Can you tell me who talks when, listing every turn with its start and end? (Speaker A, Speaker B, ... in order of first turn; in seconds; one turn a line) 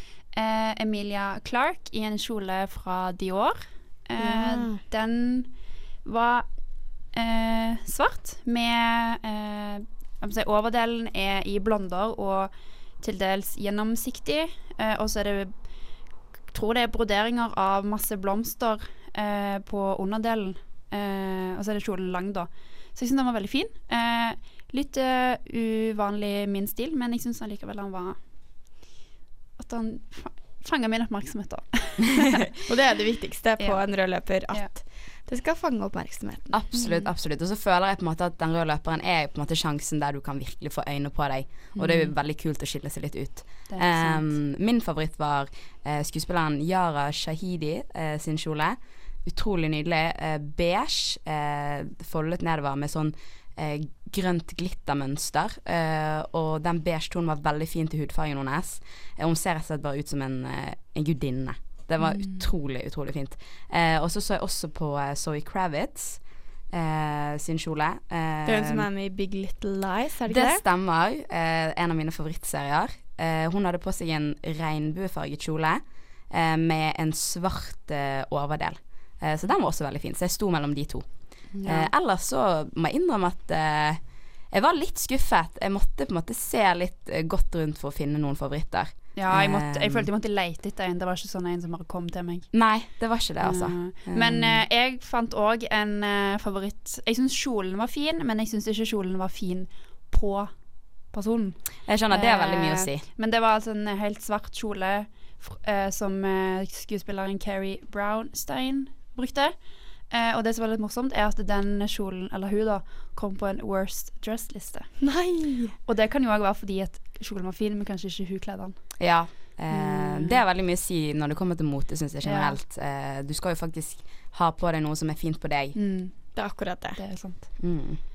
Speaker A: 0.3-15.8
Speaker B: 4.2-4.8
Speaker A: 16.5-28.2
Speaker A: 29.6-32.5
Speaker B: 32.7-36.5
Speaker C: 36.5-68.9
Speaker A: 36.7-37.1
Speaker A: 41.7-42.1
Speaker A: 43.7-44.4
Speaker A: 62.0-62.5
Speaker B: 68.5-70.6
Speaker C: 70.3-81.1
Speaker A: 81.5-81.9
Speaker C: 81.6-90.1
Speaker A: 89.2-92.5
Speaker C: 92.5-94.6
Speaker A: 93.4-100.6
Speaker A: 101.1-115.0
Speaker C: 101.9-103.1
Speaker B: 115.0-115.8
Speaker A: 115.9-120.4
Speaker C: 119.0-125.8
Speaker A: 122.2-122.6
Speaker A: 125.8-126.4
Speaker B: 126.3-127.0
Speaker A: 127.0-127.5
Speaker C: 127.6-128.0